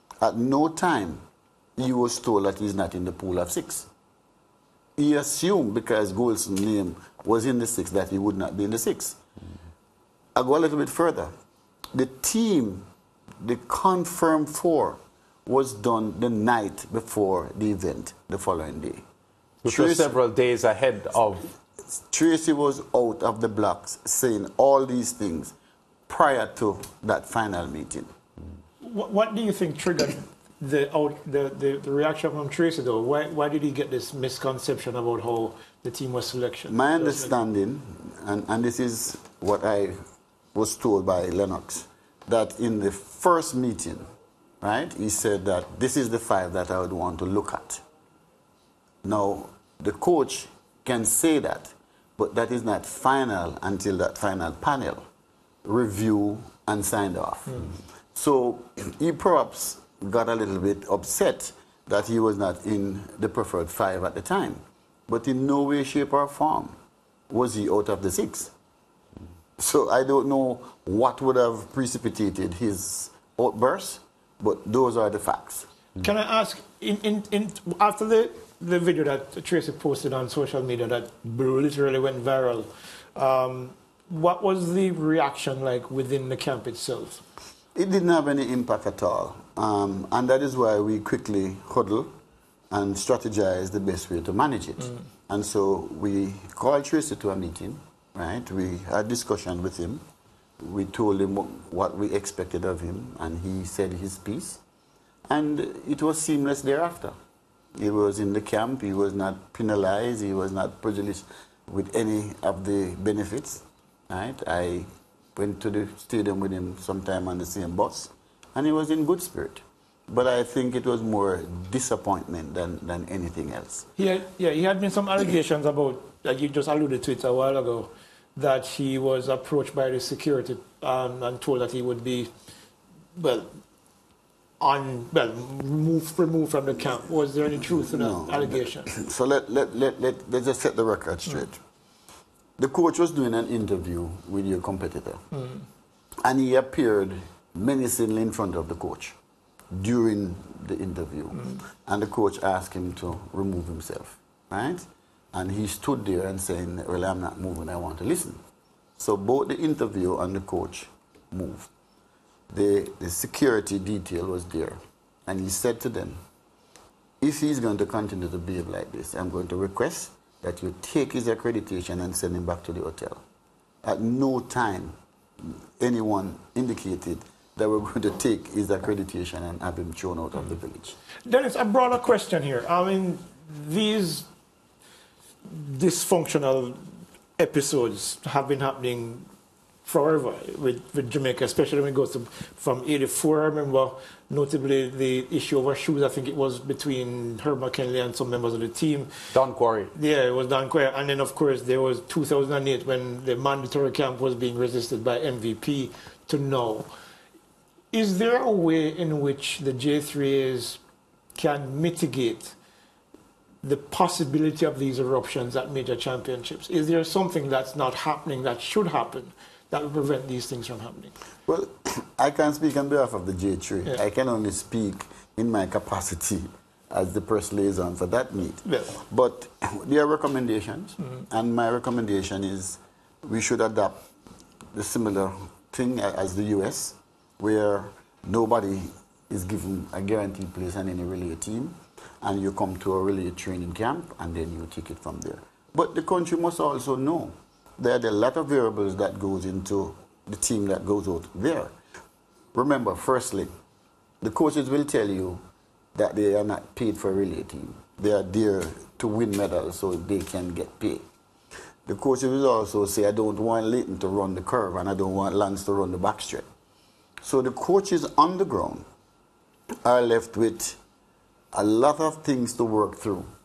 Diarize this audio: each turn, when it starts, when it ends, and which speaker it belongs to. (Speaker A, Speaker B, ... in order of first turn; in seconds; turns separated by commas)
Speaker A: 0.2-1.2, Speaker A: 1.8-3.9, Speaker A: 5.0-9.2, Speaker A: 10.3-11.3, Speaker A: 11.9-12.8, Speaker A: 13.4-19.0, Speaker B: 19.6-21.5, Speaker A: 19.6-20.1, Speaker A: 21.9-25.5, Speaker A: 26.1-28.1, Speaker C: 28.8-37.3, Speaker A: 36.7-40.0, Speaker A: 40.5-44.0, Speaker A: 44.6-47.8, Speaker A: 49.0-55.0, Speaker A: 55.6-66.7, Speaker A: 67.3-68.5, Speaker A: 69.6-75.7, Speaker C: 76.0-87.2, Speaker A: 87.7-92.1, Speaker A: 92.7-100.0, Speaker A: 100.6-104.6, Speaker A: 105.3-107.1, Speaker A: 107.8-123.9, Speaker C: 124.0-132.3, Speaker C: 133.2-133.5, Speaker C: 134.6-138.9, Speaker A: 137.9-141.6, Speaker A: 142.6-145.2, Speaker A: 146.2-149.2, Speaker A: 149.7-158.4, Speaker A: 159.0-161.7, Speaker A: 162.5-166.2, Speaker A: 167.2-173.2, Speaker A: 173.8-180.9, Speaker C: 181.2-184.3, Speaker C: 185.4-186.8, Speaker C: 187.4-189.2, Speaker C: 189.8-199.1, Speaker B: 199.3-199.9, Speaker C: 199.9-206.9, Speaker C: 207.9-210.8, Speaker C: 211.3-212.5, Speaker C: 213.6-221.1, Speaker A: 221.5-234.0, Speaker C: 228.7-229.0, Speaker A: 234.7-251.7, Speaker A: 252.5-253.5, Speaker A: 254.2-255.4, Speaker A: 255.9-261.0, Speaker A: 261.9-266.4, Speaker A: 267.2-268.8, Speaker A: 269.8-270.8, Speaker A: 271.5-273.3